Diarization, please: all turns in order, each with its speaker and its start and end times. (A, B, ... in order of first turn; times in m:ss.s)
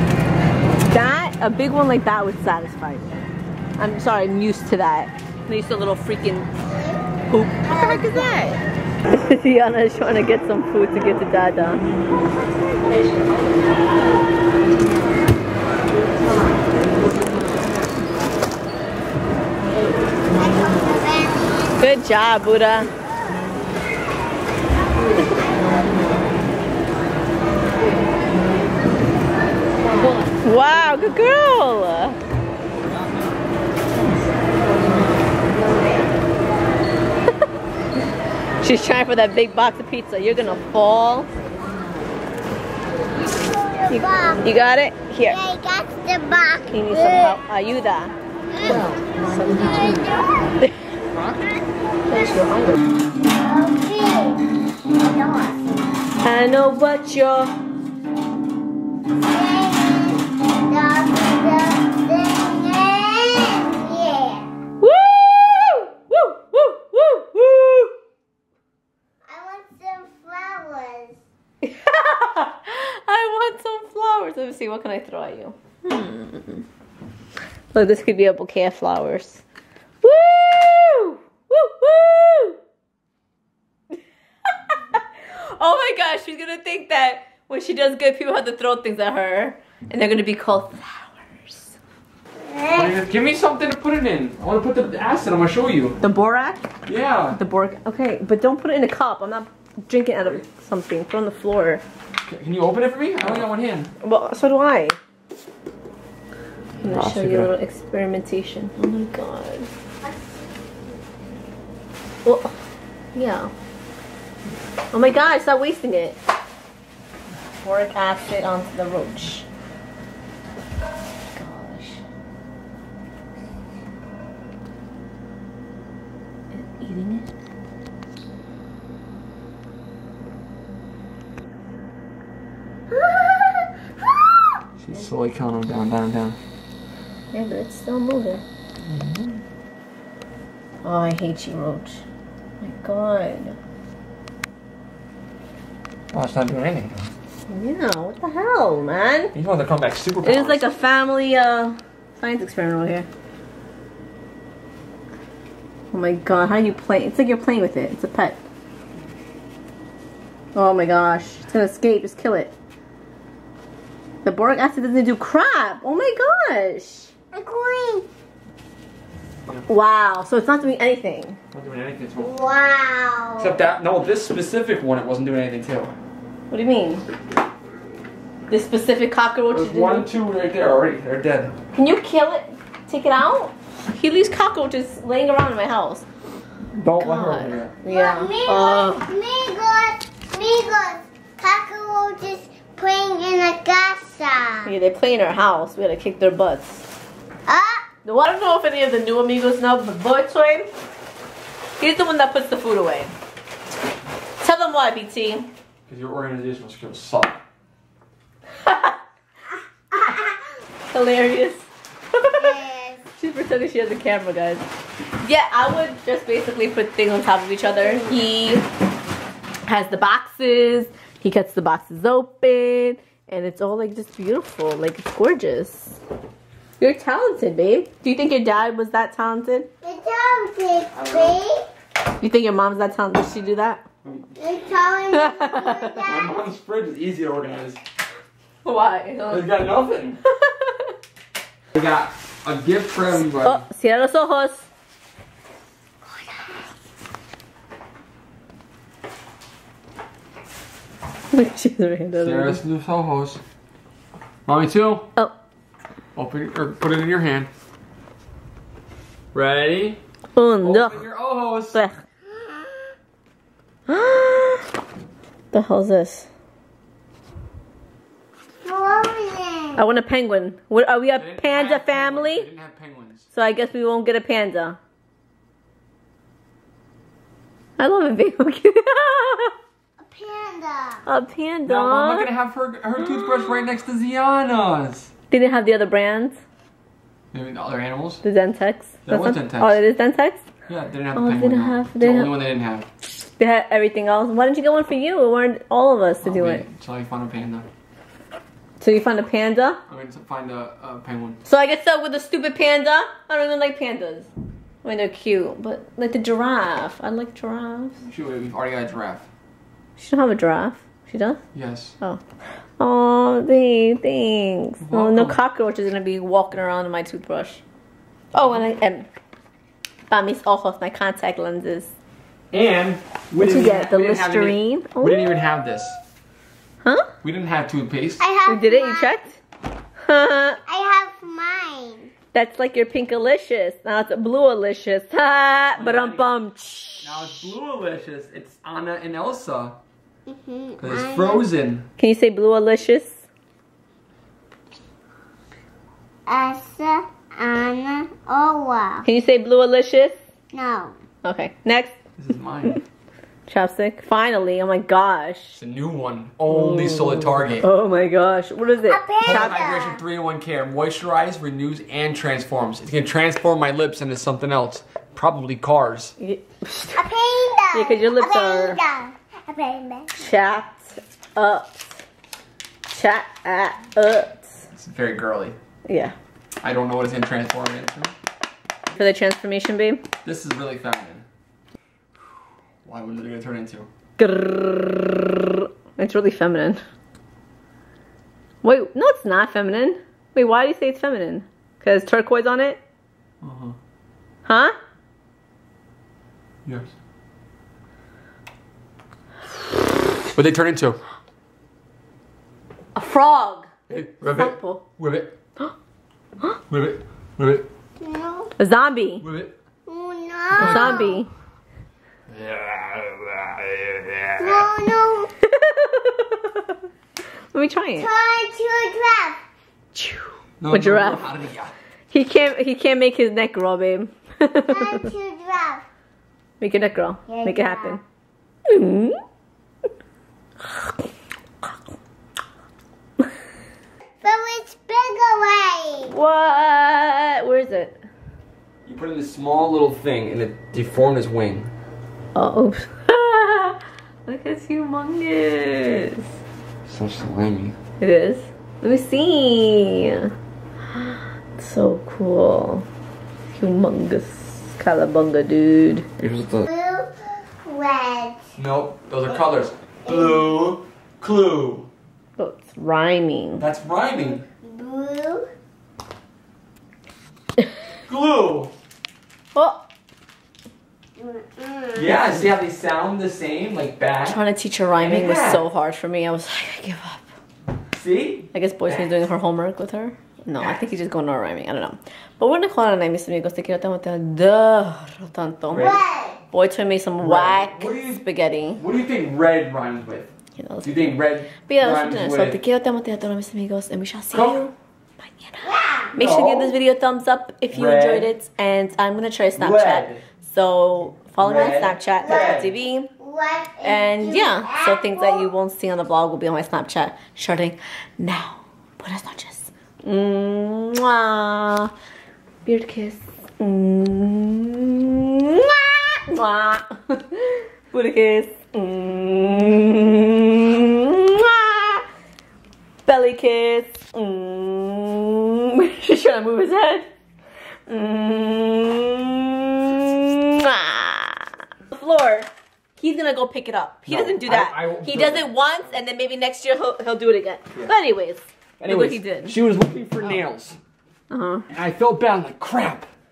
0:00.9-0:03.2 A
0:03.8-0:06.5 A
0:07.3-0:11.8 A
0:07.6-0:08.6 B
0:20.3-0:21.8 B
0:21.8-0:22.9 A
0:30.0-0:32.2 A
0:38.6-0:41.3 A
0:43.4-0:44.4 B
0:43.9-0:45.4 A
0:45.3-0:47.4 B
0:46.7-0:50.1 A
0:48.5-0:48.9 B
0:49.5-0:50.5 B
0:51.1-0:51.4 C
0:52.1-0:52.8 A
0:53.4-0:55.6 B
0:56.2-0:57.6 A
0:59.2-1:04.5 B
1:04.8-1:08.0 A
1:09.3-1:11.2 B
1:11.6-1:16.7 A
1:17.7-1:19.4 A
1:20.0-1:22.6 A
1:24.7-1:31.8 A
1:32.5-1:33.0 B
1:32.7-1:36.0 C
1:36.0-1:36.7 A
1:36.9-1:37.4 C
1:37.3-1:41.8 A
1:40.2-1:40.4 C
1:42.2-1:43.9 C
1:44.0-1:45.0 A
1:46.8-1:47.5 C
1:46.8-1:49.7 A
1:52.2-1:52.5 A
1:53.1-1:53.5 A
1:54.9-1:56.2 A
1:57.6-1:59.5 A
2:01.3-2:02.0 A
2:06.5-2:07.3 A
2:14.8-2:16.4 C
2:17.3-2:18.4 A
2:18.8-2:19.4 C
2:20.8-2:22.0 A
2:22.6-2:23.6 A
2:26.1-2:27.0 C
2:27.5-2:29.3 A
2:29.3-2:30.6 C
2:30.2-2:33.1 A
2:35.9-2:38.4 A
2:40.6-2:42.5 A
2:44.2-2:47.1 A
2:47.3-2:48.1 B
2:49.7-2:51.4 A
2:51.5-2:52.4 C
2:52.2-2:53.6 B
2:53.4-2:55.9 C
2:56.5-2:57.1 A
2:58.5-3:00.1 A
2:59.5-3:01.6 C
3:01.7-3:06.1 A
3:06.8-3:07.7 C
3:07.0-3:09.1 A
3:07.9-3:14.7 B
3:14.6-3:16.9 A
3:17.5-3:17.9 B
3:18.0-3:20.7 A
3:21.8-3:23.1 A
3:24.4-3:25.5 A
3:25.9-3:27.4 C
3:28.6-3:29.0 A
3:30.9-3:32.6 A
3:32.3-3:33.0 B
3:33.2-3:34.6 A
3:35.2-3:38.7 A
3:39.7-3:46.0 A
3:46.8-3:49.7 A
3:49.8-3:51.7 B
3:50.9-3:51.4 C
3:52.2-3:53.8 A
3:54.0-3:54.3 C
3:54.4-3:56.2 B
3:55.1-3:56.1 A
3:56.0-3:57.8 C
3:58.6-3:59.5 A
3:59.3-4:00.2 C
4:00.2-4:00.9 A
4:01.7-4:03.6 C
4:03.3-4:04.7 A
4:11.3-4:12.6 A
4:12.2-4:13.4 C
4:14.5-4:15.1 C
4:16.2-4:17.5 C
4:19.3-4:20.0 C
4:20.4-4:21.0 A
4:20.6-4:21.8 C
4:21.7-4:22.0 A
4:23.9-4:24.7 A
4:25.5-4:26.3 A
4:28.6-4:29.8 B
4:29.8-4:32.5 A
4:31.1-4:33.3 C
4:33.3-4:34.8 A
4:37.8-4:39.5 A
4:40.0-4:41.0 B
4:41.1-4:42.3 A
4:41.7-4:45.1 C
4:43.2-4:43.4 A
4:45.3-4:46.4 A
4:47.3-4:48.2 C
4:48.2-4:50.4 A
4:49.1-4:49.8 C
4:50.7-4:52.9 C
4:51.2-4:52.4 A
4:53.4-4:56.6 A
4:56.2-4:57.7 C
4:58.8-4:59.8 A
4:59.9-5:01.4 C
5:01.4-5:04.3 A
5:04.8-5:08.0 A
5:08.0-5:09.3 C
5:10.0-5:11.4 A
5:11.5-5:12.0 C
5:12.8-5:17.6 A
5:14.8-5:15.4 C
5:18.3-5:19.1 A
5:20.1-5:21.9 A
5:22.5-5:26.0 C
5:23.4-5:25.3 A
5:26.8-5:27.1 A
5:27.2-5:28.2 C
5:28.2-5:29.1 B
5:28.5-5:29.4 A
5:30.0-5:30.6 A
5:30.7-5:32.1 B
5:32.3-5:37.5 A
5:35.8-5:36.3 C
5:37.0-5:39.8 C
5:40.3-5:41.5 B
5:40.8-5:41.9 C
5:42.0-5:43.2 A
5:46.3-5:49.1 B
5:49.0-5:50.2 A
5:50.5-5:51.0 B
5:51.2-5:52.0 A
5:52.2-5:52.8 C
5:53.5-5:55.6 A
5:55.6-5:57.7 C
5:56.5-5:59.7 A
5:58.9-6:00.0 B
5:59.2-6:06.2 C
6:06.2-6:07.0 A
6:07.0-6:10.1 B
6:07.7-6:08.8 A
6:10.1-6:12.0 A
6:12.9-6:14.6 A
6:14.7-6:15.6 C
6:15.9-6:16.1 A
6:16.6-6:18.1 C
6:18.9-6:20.0 A
6:20.2-6:21.3 C
6:22.8-6:23.9 C
6:24.2-6:26.8 A
6:28.6-6:32.8 A
6:33.4-6:33.8 C
6:34.5-6:34.8 A
6:40.3-6:41.0 C
6:43.0-6:43.7 A
6:43.9-6:45.3 C
6:44.3-6:44.8 A
6:46.7-6:47.7 C
6:48.0-6:48.5 B
6:48.6-6:49.3 A
6:49.2-6:49.5 C
6:49.9-6:51.2 B
6:50.6-6:51.3 A
6:50.6-6:51.1 C
6:52.3-6:54.7 C
6:54.4-6:55.3 B
6:55.4-6:56.7 A
6:57.5-6:58.1 A
6:58.0-6:59.4 B
7:00.0-7:01.3 A
7:00.6-7:01.7 C
7:02.1-7:05.1 A
7:04.7-7:05.8 B
7:06.6-7:08.0 A
7:07.3-7:08.0 B
7:08.7-7:09.2 A
7:10.6-7:10.9 A
7:14.2-7:16.1 B
7:16.1-7:18.0 A
7:18.8-7:21.7 C
7:22.4-7:26.3 A
7:26.9-7:27.8 C
7:28.0-7:30.3 A
7:30.9-7:32.9 A
7:33.5-7:36.1 A
7:36.2-7:36.6 C
7:36.6-7:38.4 B
7:38.6-7:41.9 C
7:40.1-7:40.4 B
7:42.4-7:43.6 A
7:43.6-7:44.4 C
7:44.6-7:45.5 B
7:48.1-7:48.7 C
7:49.6-7:49.8 A
7:51.2-7:52.1 B
7:52.0-7:54.4 C
7:54.3-7:57.2 A
7:55.0-7:55.6 C
7:57.9-7:59.0 C
7:58.5-8:08.8 A
8:05.7-8:06.0 C
8:05.7-8:06.4 B
8:07.2-8:08.2 C
8:08.8-8:10.3 C
8:10.6-8:10.9 A
8:10.8-8:12.6 C
8:11.7-8:23.1 A
8:14.3-8:14.7 C
8:15.6-8:16.2 B
8:16.2-8:16.8 C
8:17.7-8:18.3 C
8:19.6-8:20.2 C
8:21.4-8:22.7 C
8:22.2-8:25.5 B
8:23.8-8:31.9 A
8:32.6-8:42.0 A
8:43.1-8:47.1 A
8:47.9-8:59.6 A
8:54.1-8:55.5 C
8:58.8-9:00.8 C
9:01.3-9:01.7 A
9:01.7-9:03.1 C